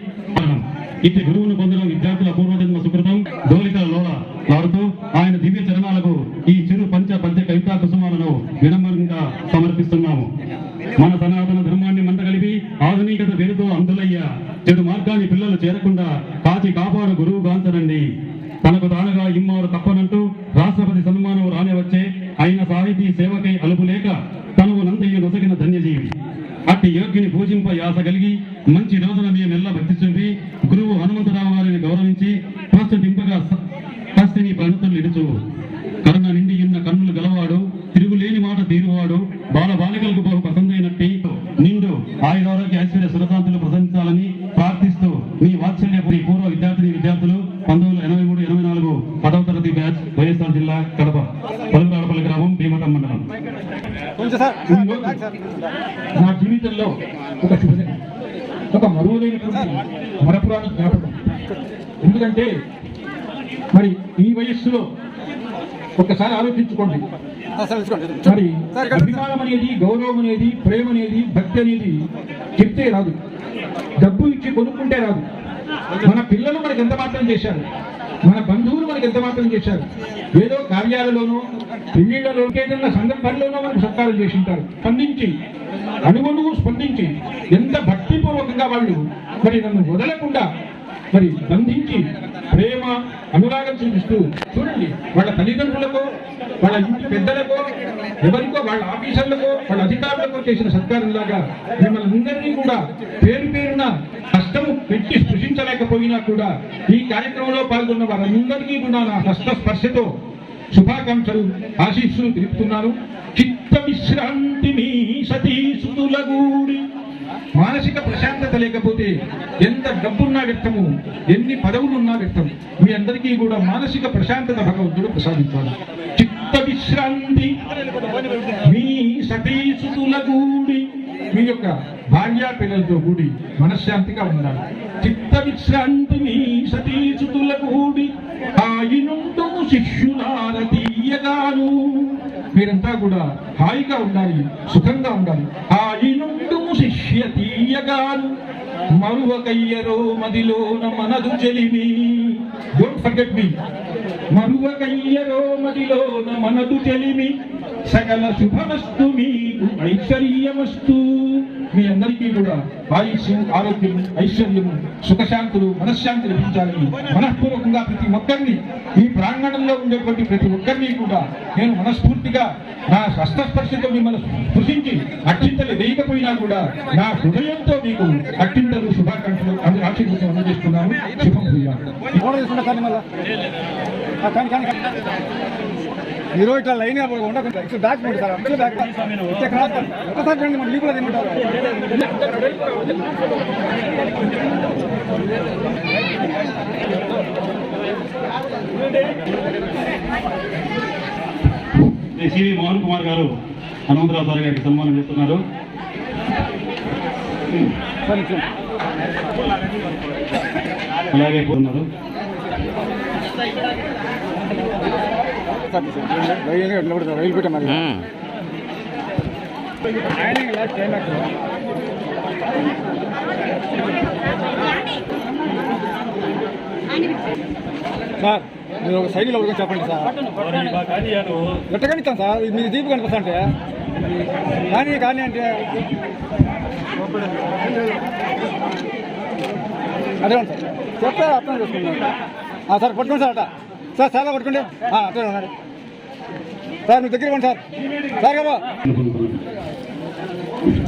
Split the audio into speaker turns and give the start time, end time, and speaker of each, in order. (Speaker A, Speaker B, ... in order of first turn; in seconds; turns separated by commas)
Speaker A: 0.3-10.3, Speaker A: 11.0-18.0, Speaker A: 18.6-26.1, Speaker A: 26.7-33.6, Speaker A: 34.1-35.4, Speaker A: 36.0-53.2, Speaker B: 54.2-55.3, Speaker C: 54.7-55.2, Speaker C: 56.2-58.0, Speaker C: 58.7-61.2, Speaker C: 62.0-62.5, Speaker C: 63.7-64.9, Speaker C: 66.0-67.0, Speaker B: 67.6-69.1, Speaker C: 68.2-72.0, Speaker C: 72.6-73.1, Speaker C: 74.0-75.2, Speaker C: 76.0-77.6, Speaker C: 78.3-79.8, Speaker C: 80.4-85.3, Speaker C: 86.0-90.5, Speaker C: 91.1-96.1, Speaker C: 96.6-97.7, Speaker C: 98.2-110.1, Speaker C: 110.7-116.8, Speaker C: 117.5-119.1, Speaker C: 119.6-127.5, Speaker C: 128.7-148.3, Speaker C: 148.9-153.5, Speaker C: 154.3-157.3, Speaker C: 157.9-181.8, Speaker B: 182.2-183.1, Speaker B: 184.2-184.8, Speaker B: 186.3-192.1, Speaker A: 202.1-203.3, Speaker A: 203.9-205.4, Speaker B: 208.1-208.5, Speaker A: 211.1-211.9, Speaker B: 215.7-218.1, Speaker B: 220.1-221.3, Speaker B: 228.2-230.3, Speaker A: 230.6-231.6, Speaker B: 231.7-233.5, Speaker B: 234.7-235.8, Speaker B: 240.2-242.1, Speaker B: 242.7-245.5, Speaker B: 246.9-247.6, Speaker B: 248.2-248.7, Speaker A: 248.8-249.4